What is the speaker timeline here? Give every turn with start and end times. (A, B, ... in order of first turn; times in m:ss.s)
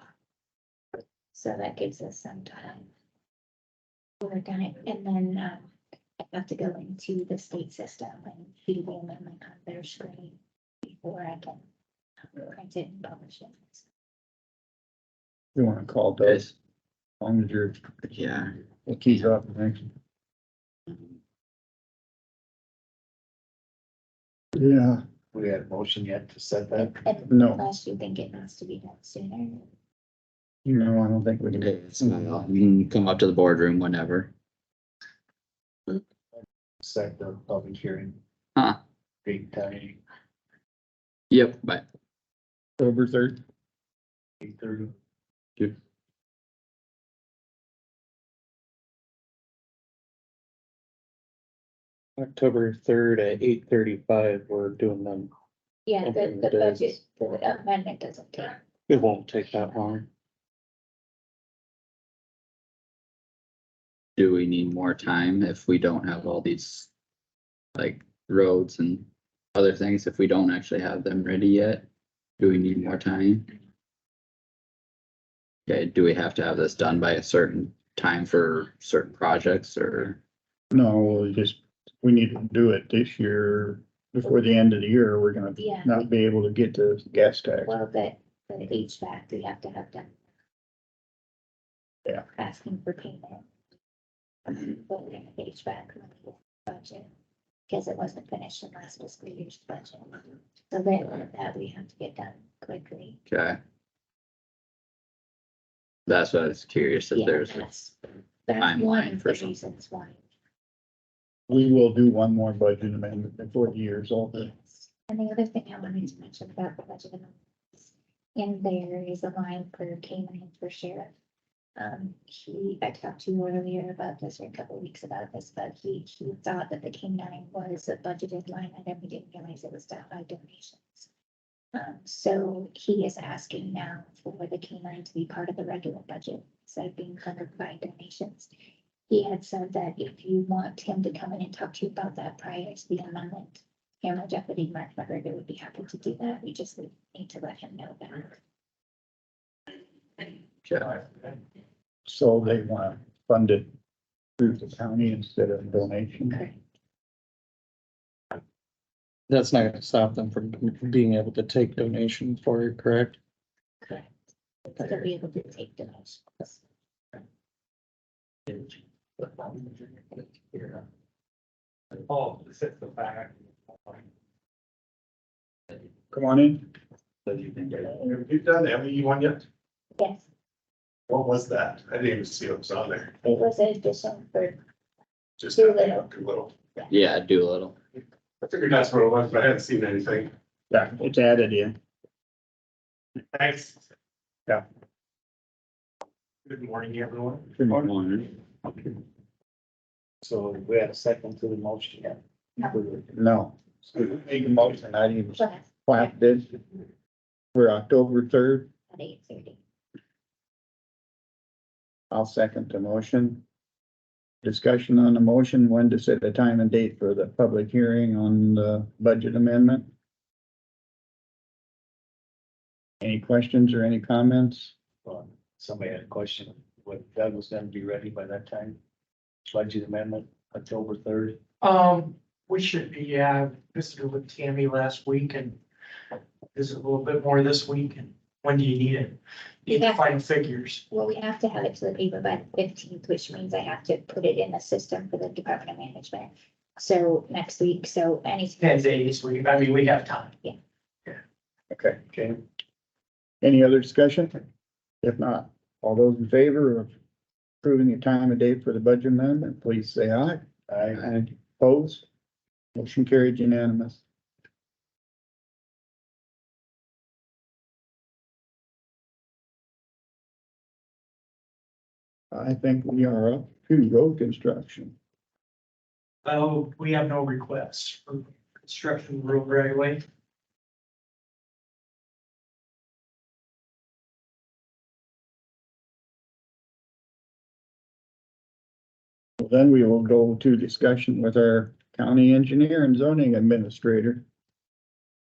0:01.3-0:02.9 A
0:04.2-0:11.6 A
0:12.4-0:13.8 A
0:15.5-0:16.5 B
0:16.2-0:16.5 C
0:17.2-0:17.8 B
0:18.1-0:18.5 C
0:18.9-0:19.9 B
0:24.6-0:25.0 B
0:25.3-0:27.0 D
0:26.8-0:29.7 A
0:27.3-0:27.6 B
0:30.6-0:32.3 B
0:31.5-0:34.3 C
0:36.8-0:38.2 D
0:39.2-0:40.0 D
0:41.3-0:41.9 C
0:42.8-0:43.4 B
0:44.4-0:44.9 D
0:52.2-0:55.3 E
0:55.9-0:58.6 A
0:56.0-0:57.1 E
0:58.9-1:00.0 E
1:04.2-1:06.9 C
1:07.7-1:11.8 C
1:12.4-1:13.5 C
1:15.7-1:20.2 C
1:20.7-1:27.7 B
1:25.6-1:26.0 A
1:27.6-1:30.1 A
1:32.4-1:33.4 A
1:34.5-1:37.1 A
1:37.7-1:43.2 A
1:43.3-1:43.6 C
1:46.1-1:47.7 C
1:47.1-1:50.2 A
1:48.6-1:49.5 C
1:51.5-1:54.5 B
1:54.3-2:01.1 A
2:01.8-2:11.1 A
2:11.7-2:18.5 A
2:19.1-2:28.4 A
2:30.7-2:31.0 C
2:32.1-2:33.7 B
2:34.4-2:36.4 B
2:36.3-2:36.6 A
2:39.3-2:43.2 E
2:43.8-2:44.1 A
2:44.7-2:46.6 A
2:50.5-2:50.8 E
2:52.0-2:53.3 E
2:56.1-2:56.7 B
2:58.0-2:59.4 F
3:00.0-3:00.2 A
3:01.1-3:03.1 F
3:03.2-3:04.6 A
3:05.4-3:06.5 F
3:05.5-3:06.1 A
3:06.9-3:07.8 C
3:08.4-3:10.3 F
3:10.7-3:11.8 B
3:13.4-3:13.7 G
3:16.5-3:17.5 G
3:17.6-3:18.2 B
3:20.2-3:23.0 D
3:23.1-3:26.6 B
3:25.4-3:25.6 A
3:27.5-3:28.7 B
3:28.9-3:29.6 A
3:32.1-3:33.4 B
3:34.4-3:39.9 B
3:43.0-3:44.7 B
3:45.0-3:48.8 D
3:49.5-3:51.4 D
3:51.6-3:55.6 G
3:56.5-4:00.8 G
3:59.7-4:00.2 A
4:00.9-4:09.0 A
4:08.6-4:10.3 G
4:11.7-4:12.1 B
4:13.4-4:14.4 B
4:15.0-4:16.9 B
4:17.6-4:22.0 B
4:20.7-4:21.0 D
4:22.8-4:24.0 B
4:32.3-4:34.9 B
4:36.2-4:40.0 G
4:49.4-4:54.2 B